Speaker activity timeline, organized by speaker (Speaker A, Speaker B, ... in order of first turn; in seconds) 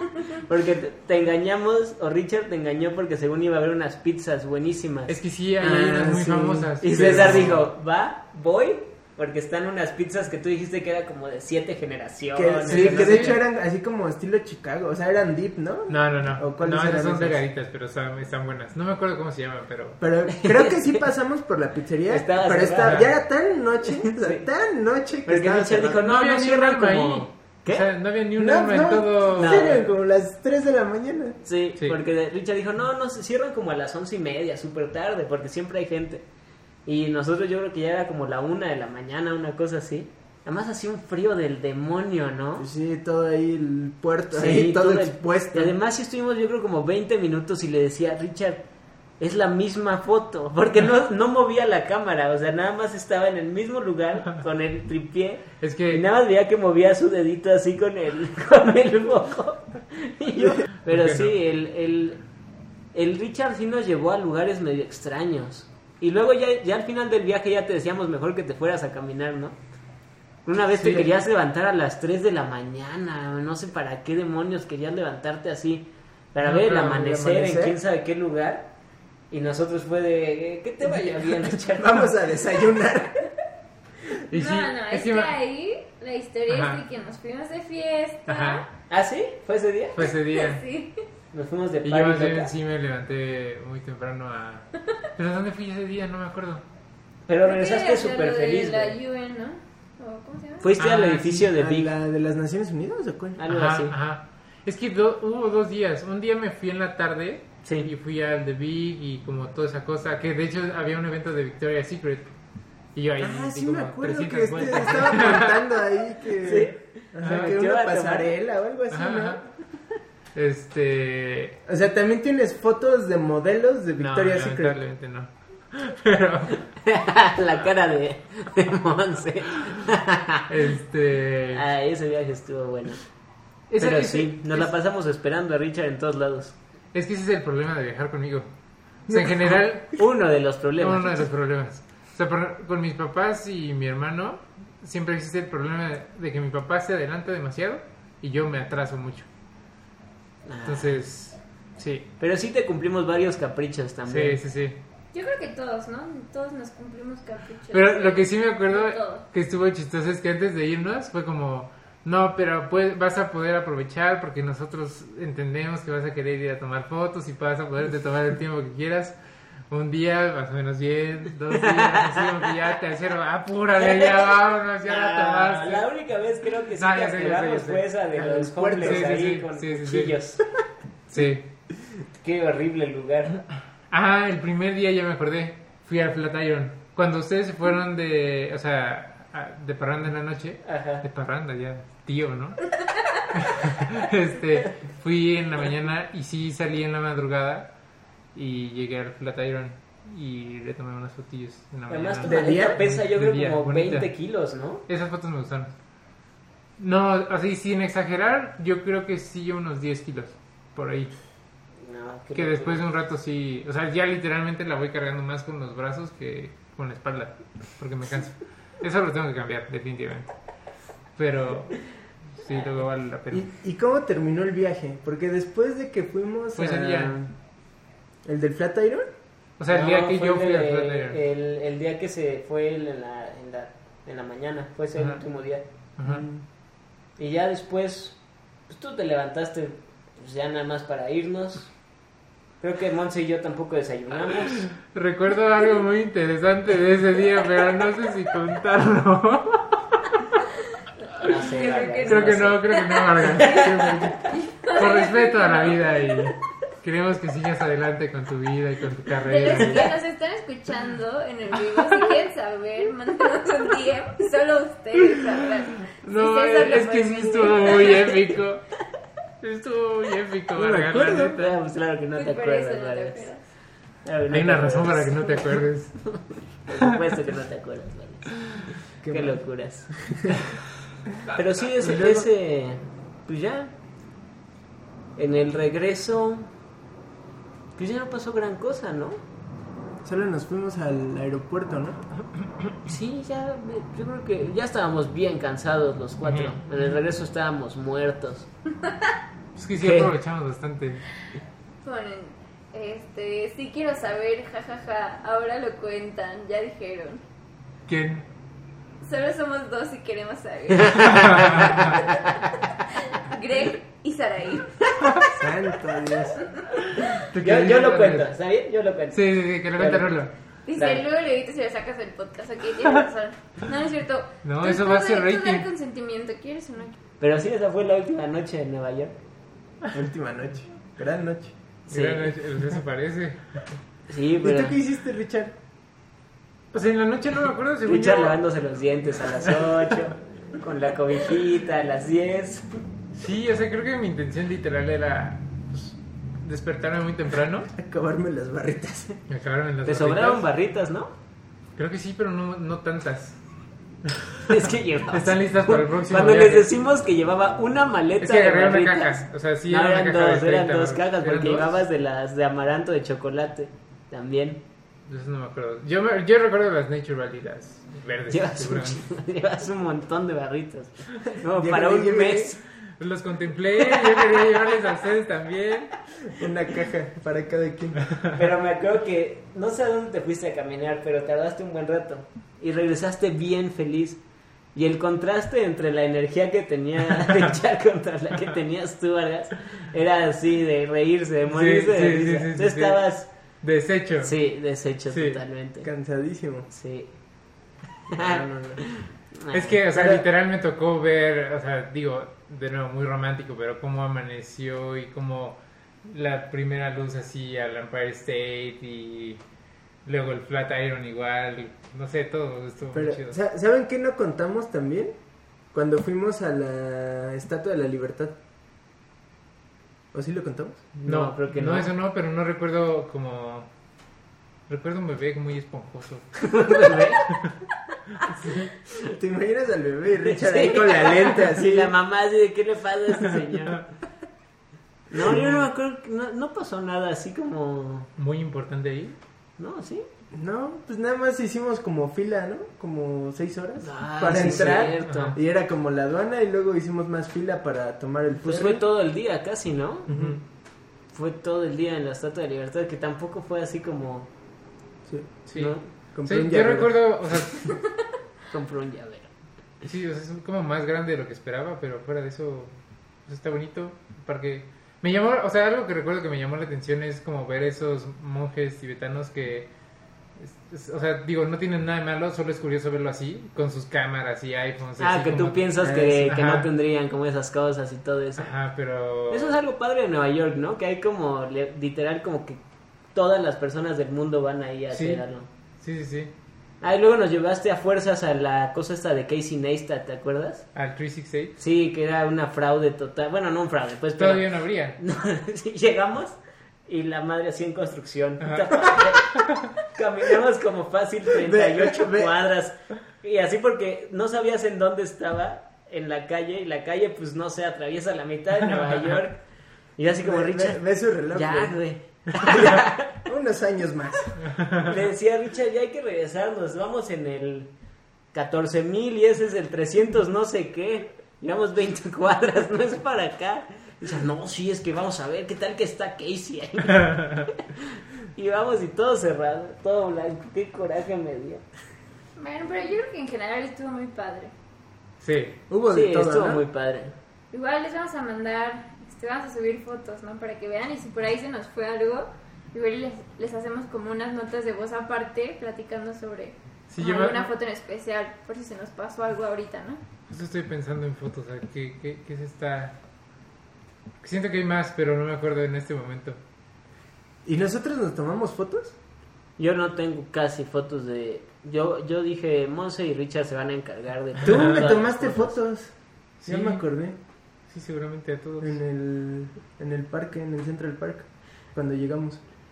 Speaker A: 0.3-5.2, 6.8-13.4, 20.3-21.0, 22.1-23.1, 24.1-24.4, 25.2-27.9, 29.4-29.8, 31.4-36.2, 36.9-42.7, 44.3-48.6, 49.2-62.2, 62.9-69.6, 70.4-78.7, 79.3-82.1, 88.9-90.0, 91.3-92.5, 97.3-99.0, 100.6-101.9, 103.4-103.9, 107.6-107.9, 116.4-118.3, 126.8-130.5, 131.5-133.0, 133.8-136.6, 139.9-141.3, 150.4-151.0, 152.2-154.4, 171.5-172.5, 173.8-180.4, 182.2-183.4, 190.6-191.0, 201.9-204.8, 211.8-212.8, 229.7-235.6, 237.2-241.7, 242.6-244.7, 251.2-252.6, 253.4-253.6, 259.5-259.9, 270.6-273.3, 274.0-275.4, 276.0-279.9, 281.3-283.7, 285.1-286.5, 287.8-289.2, 292.8-298.5, 299.8-300.1, 310.8-312.1, 317.3-320.2, 320.7-321.0, 327.2-329.2, 331.9-332.3, 334.1-334.8, 337.9-342.8, 349.9-351.1, 354.5-364.6, 368.3-372.6, 373.8-374.8, 378.3-384.2, 384.7-393.3, 394.2-395.9, 396.7-397.1, 398.1-399.8, 420.9-421.9, 426.4-427.3, 430.2-433.9, 435.1-438.1, 439.6-440.1, 443.8-445.4, 448.4-450.1, 451.1-454.3, 455.5-455.9, 458.5-459.3, 475.0-478.5, 479.3-482.6, 483.1-485.5, 486.8-490.6, 491.6-509.4, 510.0-510.8, 511.3-513.2, 514.8-517.7, 518.3-531.6, 535.9-537.1, 559.6-565.6
Speaker B: 5.1-7.7, 12.7-13.4, 15.9-20.0, 22.8-23.1, 26.0-29.9, 55.6-56.0, 60.9-61.4, 70.7-71.1, 76.4-77.1, 84.3-85.3, 86.5-86.8, 88.3-88.6, 90.0-90.6, 91.8-96.6, 100.8-101.5, 103.5-112.3, 112.9-115.8, 117.2-117.6, 118.9-119.5, 120.3-121.6, 124.0-126.6, 130.5-131.6, 133.7-134.7, 136.9-138.5, 139.1-140.0, 140.8-149.3, 150.7-152.1, 154.1-154.8, 157.7-169.2, 169.7-175.9, 176.8-177.9, 178.8-180.2, 181.1-181.5, 183.9-192.6, 193.3-197.7, 198.3-204.1, 204.9-205.7, 206.8-211.1, 212.3-220.3, 221.2-223.4, 226.5-227.2, 229.6-231.2, 234.9-235.2, 236.0-236.2, 244.7-250.2, 252.0-260.0, 265.8-268.6, 269.4-271.5, 274.3-276.1, 296.2-297.0, 299.6-301.0, 307.9-308.2, 311.0-312.0, 316.8-318.3, 319.1-320.3, 324.4-325.7, 331.9-333.6, 336.7-338.4, 343.1-347.7, 349.3-350.4, 351.8-353.4, 354.0-356.7, 358.2-361.8, 365.1-369.0, 373.0-375.9, 378.1-378.3, 387.2-387.5, 391.5-393.1, 393.6-394.4, 395.1-395.4, 399.5-409.4, 410.1-413.4, 421.1-423.7, 424.7-427.6, 428.2-428.7, 433.2-433.8, 435.2-435.7, 438.2-439.1, 445.0-445.4, 450.1-450.4, 455.5-457.8, 459.8-462.7, 463.2-469.7, 470.4-476.7, 478.4-479.6, 484.9-485.2, 485.8-486.3, 490.7-491.6, 494.2-495.0, 498.4-499.8, 508.6-509.2, 514.5-514.9, 526.9-527.5, 535.2-535.6, 546.9-547.5, 550.3-553.0, 554.2-556.4, 566.4-566.8, 567.7-568.8
Speaker C: 5.6-7.6, 12.3-17.4, 20.0-26.0, 28.4-31.4, 42.6-45.8, 76.9-77.8, 81.7-83.3, 101.5-103.4, 113.2-119.4, 121.7-124.8, 178.1-179.1, 202.2-202.8, 223.3-227.3, 228.2-229.1, 236.0-236.4, 279.0-280.4, 281.8-282.2, 290.0-292.0, 315.3-316.4, 329.9-331.5, 334.4-335.5, 347.7-349.2, 371.6-372.5, 376.3-378.0, 395.8-396.7, 398.1-398.8, 399.9-400.2, 412.9-415.1, 415.7-418.4, 420.1-420.9, 429.0-431.9, 440.3-448.8, 450.1-450.4, 455.1-455.4, 456.1-456.9, 475.8-476.4, 501.4-502.3, 510.2-511.8, 513.2-514.4, 535.7-536.6, 557.4-558.9, 564.4-565.9, 566.5-567.2, 568.6-572.4
Speaker D: 84.3-88.7, 90.0-91.0, 97.4-100.7, 155.1-159.2, 251.0-256.3, 259.1-268.4, 272.1-273.4, 301.8-307.2, 309.0-315.5, 320.6-327.0, 532.4-534.5, 537.5-550.0